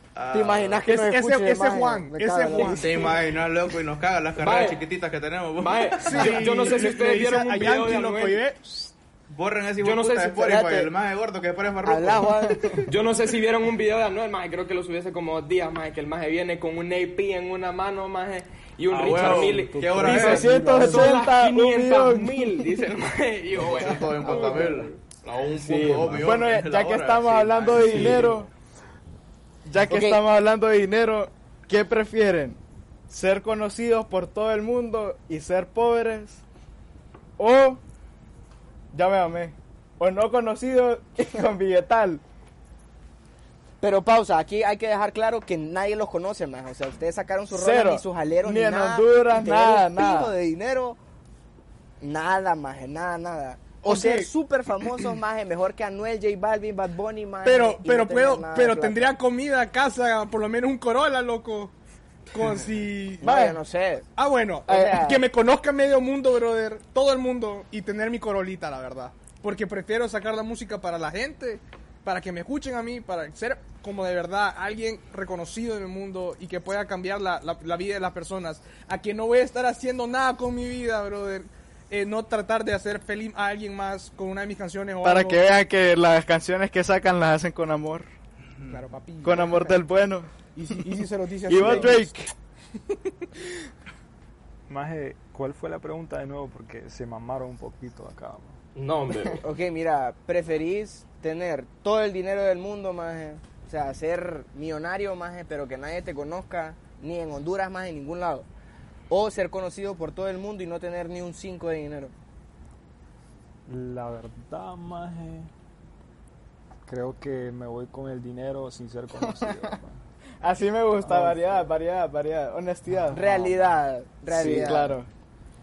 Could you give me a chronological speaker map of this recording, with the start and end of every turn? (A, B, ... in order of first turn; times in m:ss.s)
0:00.1-0:00.8 A
0:00.3-0:03.1 B
0:00.8-0:03.2 C
0:02.8-0:06.5 A
0:04.4-0:04.8 D
0:05.6-0:08.4 D
0:06.0-0:08.9 C
0:09.3-0:12.6 A
0:09.8-0:10.5 D
0:10.4-0:10.9 B
0:11.8-0:12.8 B
0:12.9-0:25.0 D
0:18.9-0:20.7 A
0:18.9-0:21.3 E
0:20.0-0:22.6 F
0:23.6-0:28.5 A
0:25.5-0:26.4 D
0:26.1-0:28.5 F
0:27.8-0:28.4 D
0:29.7-0:32.6 F
0:29.9-0:30.2 B
0:33.1-0:36.4 F
0:37.4-0:37.8 F
0:38.9-0:42.2 F
0:43.8-0:51.0 B
0:47.5-0:50.3 F
0:52.0-0:59.2 B
0:53.8-0:54.3 C
0:57.4-1:01.7 C
1:02.3-1:03.6 C
1:03.2-1:04.1 B
1:04.2-1:25.4 C
1:04.7-1:05.2 B
1:25.0-1:28.1 F
1:28.7-1:29.8 C
1:29.2-1:30.3 F
1:30.6-1:32.3 C
1:31.5-1:32.3 F
1:34.7-1:38.6 E
1:38.8-1:39.4 D
1:39.4-1:48.5 B
1:49.1-1:52.1 B
1:53.7-1:55.5 E
1:56.9-2:00.0 E
2:00.4-2:03.5 F
2:00.9-2:01.7 E
2:03.1-2:05.0 B
2:04.3-2:05.1 F
2:04.3-2:04.7 E